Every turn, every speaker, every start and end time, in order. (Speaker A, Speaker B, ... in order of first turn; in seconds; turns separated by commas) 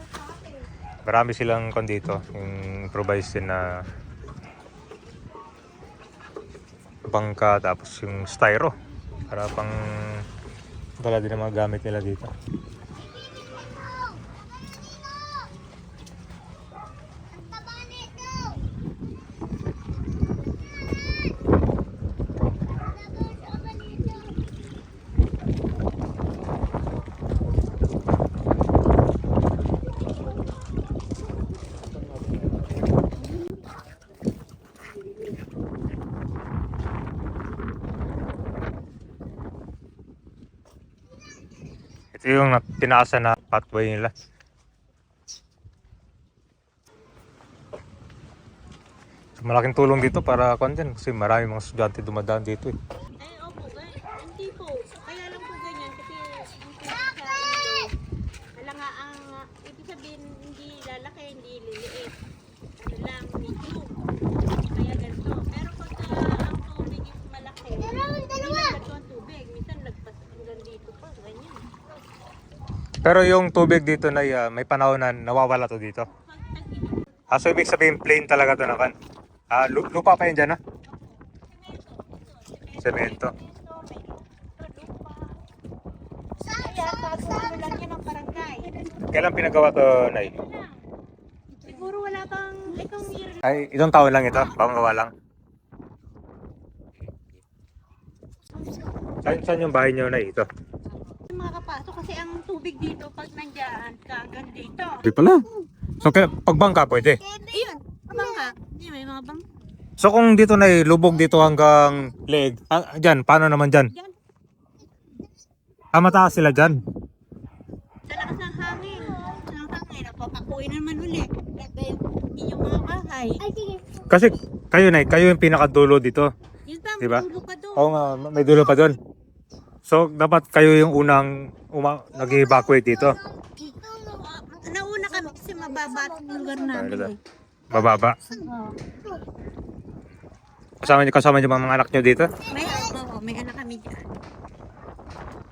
Speaker A: 1.1-3.7, Speaker A: 7.1-8.7, Speaker A: 9.3-10.2, Speaker A: 11.0-12.3, Speaker A: 42.1-44.1, Speaker A: 49.4-52.8, Speaker B: 53.2-57.9, Speaker B: 58.6-62.1, Speaker B: 62.8-64.0, Speaker B: 64.7-71.7, Speaker A: 73.0-76.1, Speaker B: 76.3-77.0, Speaker A: 77.3-78.9, Speaker A: 79.5-80.6, Speaker B: 81.6-85.4, Speaker A: 82.8-83.3, Speaker B: 86.5-88.8, Speaker A: 89.1-90.4, Speaker B: 90.2-90.8, Speaker B: 91.6-93.4, Speaker A: 93.4-95.1, Speaker A: 99.2-100.5, Speaker B: 101.3-105.1, Speaker A: 105.0-105.5, Speaker A: 106.0-107.2, Speaker B: 107.1-109.4, Speaker A: 110.0-113.9, Speaker A: 115.9-116.8, Speaker B: 118.1-123.8, Speaker A: 124.1-126.3, Speaker B: 126.7-127.9, Speaker A: 127.0-129.0, Speaker A: 129.9-133.2, Speaker B: 133.6-137.2, Speaker A: 136.7-137.1, Speaker A: 137.7-138.2, Speaker B: 137.7-139.2, Speaker A: 140.8-142.3, Speaker B: 142.5-144.1